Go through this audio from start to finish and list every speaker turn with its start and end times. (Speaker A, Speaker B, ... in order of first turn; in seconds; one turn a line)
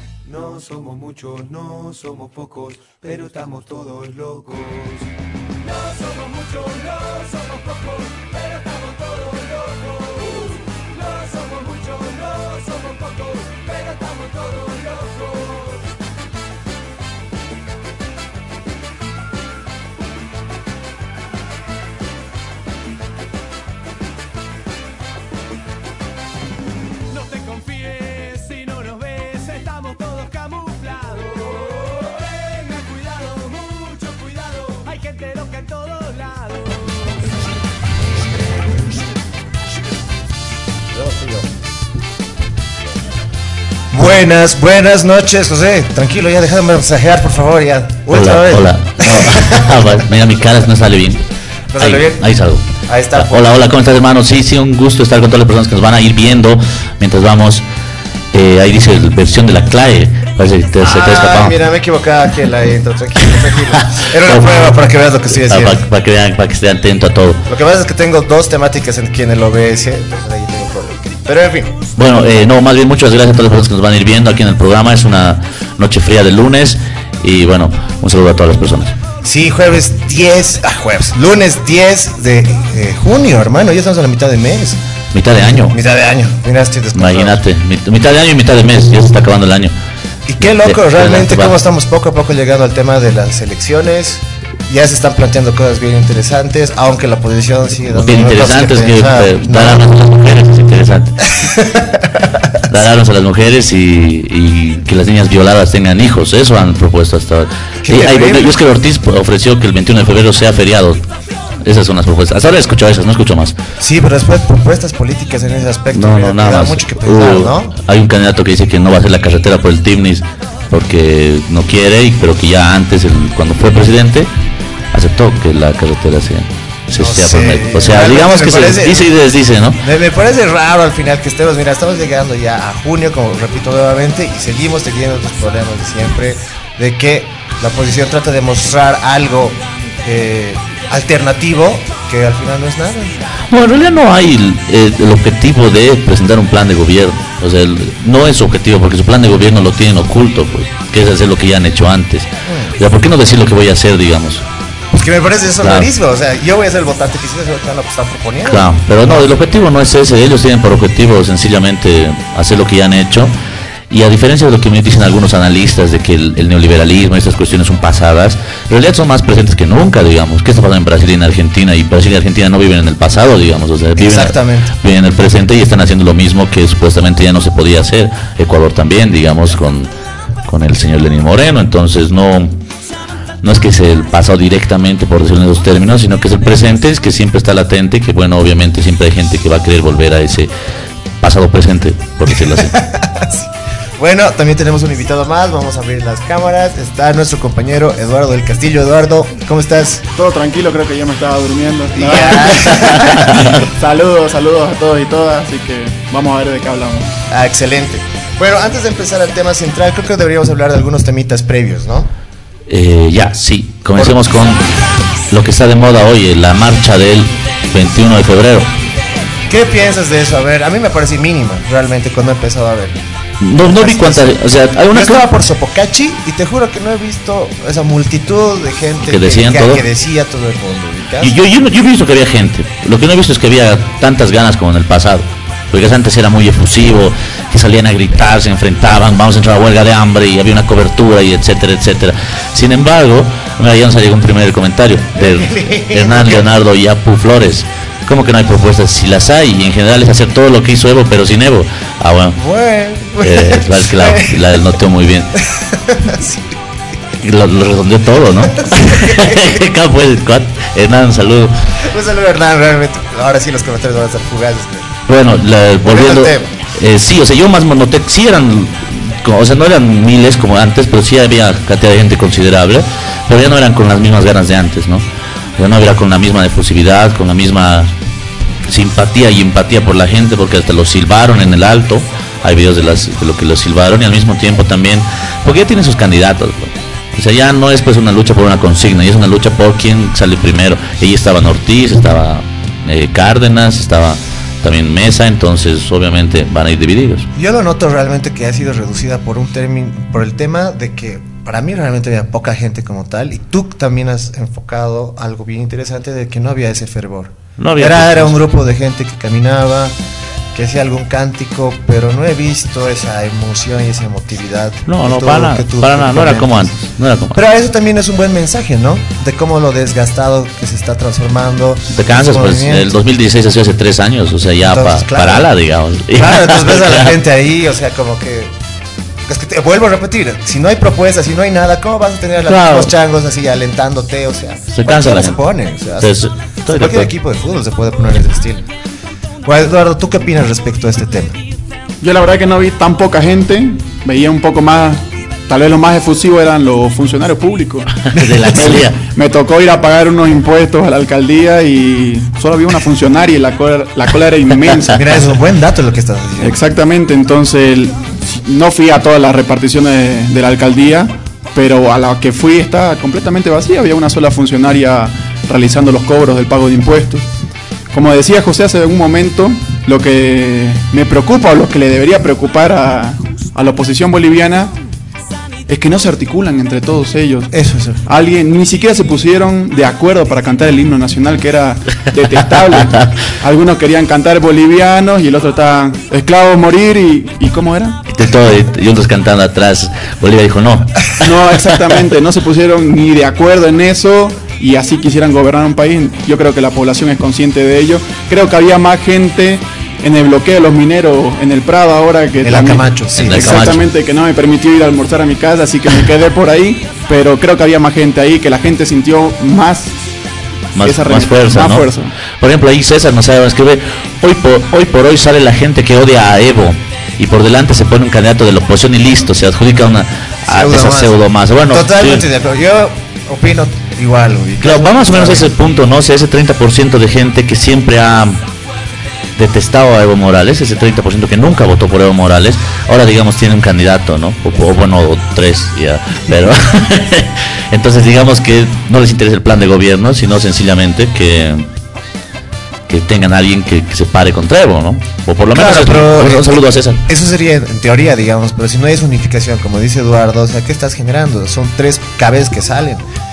Speaker A: 0.2-5.0
Speaker B: 5.6-15.8
Speaker B: 27.1-37.2
Speaker C: 40.9-41.5
Speaker C: 43.9-50.1
Speaker D: 48.1-51.2
Speaker C: 51.7-52.3
Speaker D: 51.8-57.6
Speaker C: 52.9-53.5
Speaker D: 58.3-61.6
Speaker C: 60.8-65.8
Speaker D: 64.2-64.8
Speaker D: 65.3-67.4
Speaker C: 67.5-71.8
Speaker D: 72.0-79.0
Speaker C: 79.2-84.8
Speaker D: 85.1-85.8
Speaker C: 85.4-87.4
Speaker D: 87.0-89.7
Speaker C: 90.3-99.9
Speaker D: 90.4-91.6
Speaker D: 97.9-101.3
Speaker C: 101.3-102.5
Speaker D: 102.7-111.0
Speaker C: 107.8-108.6
Speaker D: 111.6-113.5
Speaker C: 113.8-117.7
Speaker D: 115.9-124.3
Speaker D: 124.9-129.8
Speaker C: 126.9-129.1
Speaker C: 129.8-143.2
Speaker D: 143.5-154.4
Speaker C: 152.4-152.8
Speaker C: 154.9-159.3
Speaker D: 155.6-155.9
Speaker D: 158.4-163.3
Speaker D: 163.9-179.9
Speaker C: 174.0-174.7
Speaker D: 180.4-182.6
Speaker D: 183.4-190.5
Speaker D: 191.2-192.8
Speaker C: 192.3-200.0
Speaker E: 200.2-207.1
Speaker C: 201.9-203.3
Speaker D: 202.8-203.1
Speaker C: 207.3-212.1
Speaker D: 212.7-218.7
Speaker C: 214.0-214.2
Speaker C: 219.5-223.0
Speaker D: 223.4-225.2
Speaker C: 223.6-224.4
Speaker C: 224.9-231.3
Speaker D: 229.0-229.8
Speaker D: 231.2-252.4
Speaker C: 245.2-246.5
Speaker C: 252.3-254.5
Speaker D: 253.2-255.3
Speaker C: 255.4-256.6
Speaker D: 257.2-261.5
Speaker C: 258.7-259.5
Speaker C: 261.8-264.9
Speaker D: 265.1-275.0
Speaker C: 265.8-266.5
Speaker D: 275.6-277.9
Speaker D: 278.6-297.3
Speaker C: 297.3-309.9
Speaker D: 307.6-308.4
Speaker C: 310.5-322.9
Speaker D: 314.9-317.4
Speaker D: 321.9-327.1
Speaker C: 324.6-325.5
Speaker C: 326.1-328.5
Speaker C: 329.3-338.6
Speaker D: 332.5-332.9
Speaker D: 334.7-335.4
Speaker D: 336.0-337.1
Speaker C: 339.4-341.4
Speaker E: 342.0-347.9
Speaker D: 348.1-349.0
Speaker C: 348.1-348.9
Speaker E: 349.0-355.0
Speaker C: 354.9-356.6
Speaker E: 356.4-367.2
Speaker E: 367.9-374.7
Speaker E: 375.7-377.5
Speaker C: 377.5-378.0
Speaker E: 378.1-388.0
Speaker D: 388.1-391.6
Speaker E: 391.2-409.9
Speaker C: 402.4-403.8
Speaker D: 403.2-403.8
Speaker D: 410.8-422.2
Speaker E: 410.8-412.1
Speaker C: 420.4-425.5
Speaker D: 424.6-428.4
Speaker D: 429.4-441.6
Speaker D: 442.9-447.0
Speaker C: 445.5-453.0